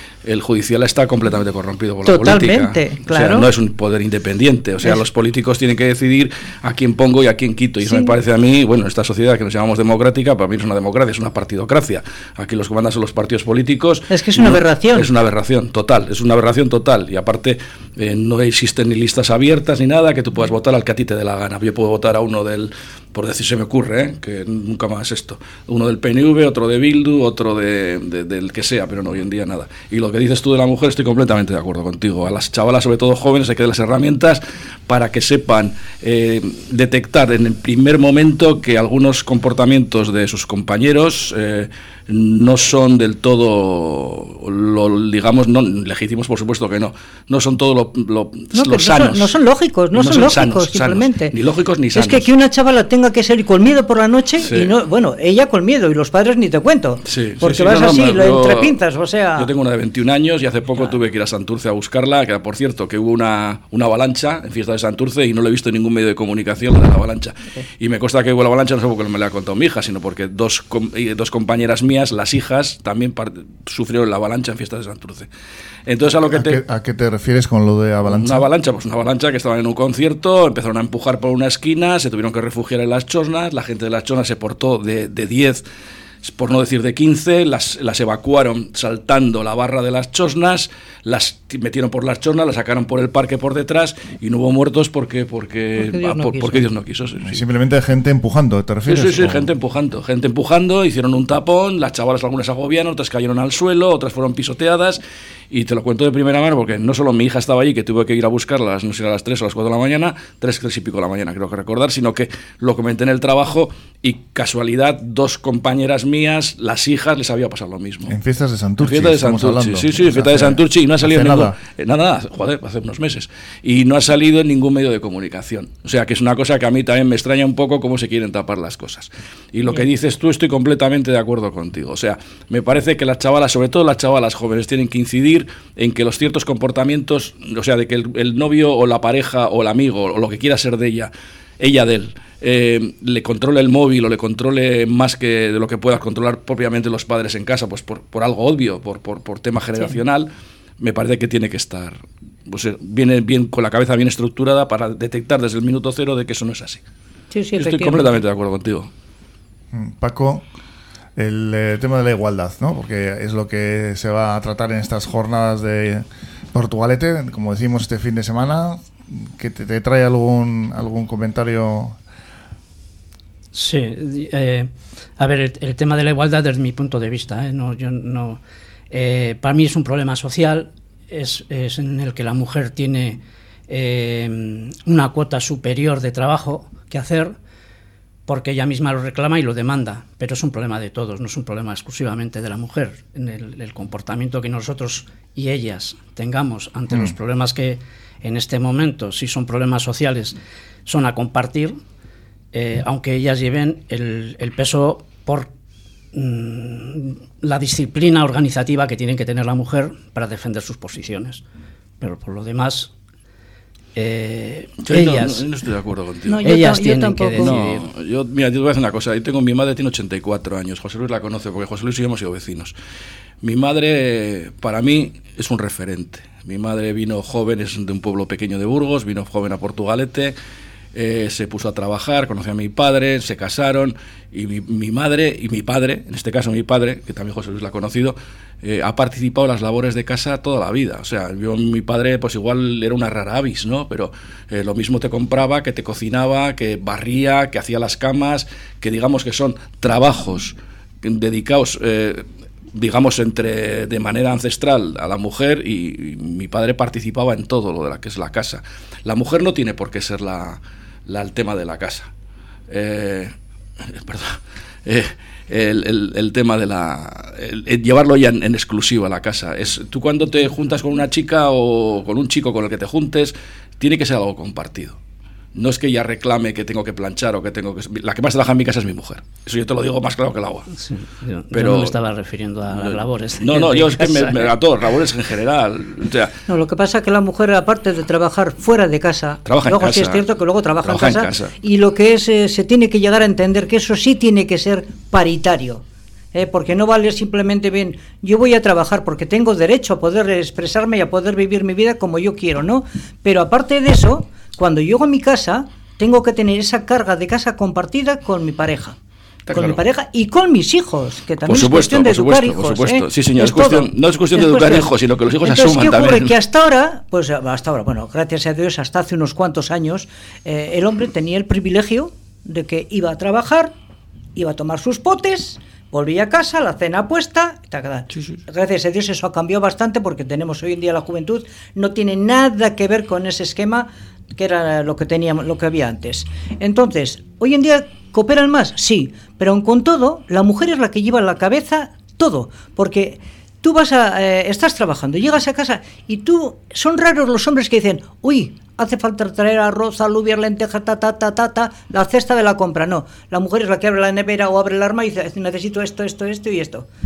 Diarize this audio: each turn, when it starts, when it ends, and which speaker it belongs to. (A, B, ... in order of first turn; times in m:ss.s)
0:00.2-0:49.3 A
0:02.0-0:03.5 B
0:07.8-0:08.1 B
0:14.1-0:15.1 B
0:48.5-0:51.4 B
0:49.9-0:52.3 A
0:51.9-0:59.5 B
0:54.4-0:54.7 A
0:57.0-0:58.8 A
0:59.4-1:15.3 A
1:15.9-1:16.6 A
1:16.3-1:18.5 C
1:18.0-1:25.6 A
1:26.2-1:37.4 A
1:35.8-1:36.7 B
1:37.2-1:39.5 C
1:38.9-1:58.2 A
1:58.1-2:01.6 C
1:58.8-2:36.8 A
2:37.3-2:38.1 B
2:37.6-2:38.9 A
2:39.7-2:40.4 C
2:41.2-2:52.0 C
2:53.5-2:58.4 D
2:58.9-3:07.3 D
3:08.3-3:21.8 D
3:22.5-3:25.5 D
3:26.1-3:31.4 D
3:32.0-3:32.9 D
3:34.0-3:35.4 D
3:34.9-3:36.4 A
3:36.3-3:37.6 B
3:36.4-3:37.9 D
3:37.4-3:42.7 A
3:43.4-3:50.4 A
3:50.9-4:22.1 A
4:22.7-4:35.0 A
4:35.6-4:40.7 A
4:40.8-4:44.5 D
4:41.5-4:42.0 A
4:42.7-4:46.4 A
4:46.5-5:09.0 B
4:49.4-4:50.2 A
4:50.8-4:51.5 A
5:09.5-5:09.8 A
5:09.5-5:14.9 B
5:11.4-5:16.4 A
5:15.4-5:23.7 B
5:24.4-5:56.9 B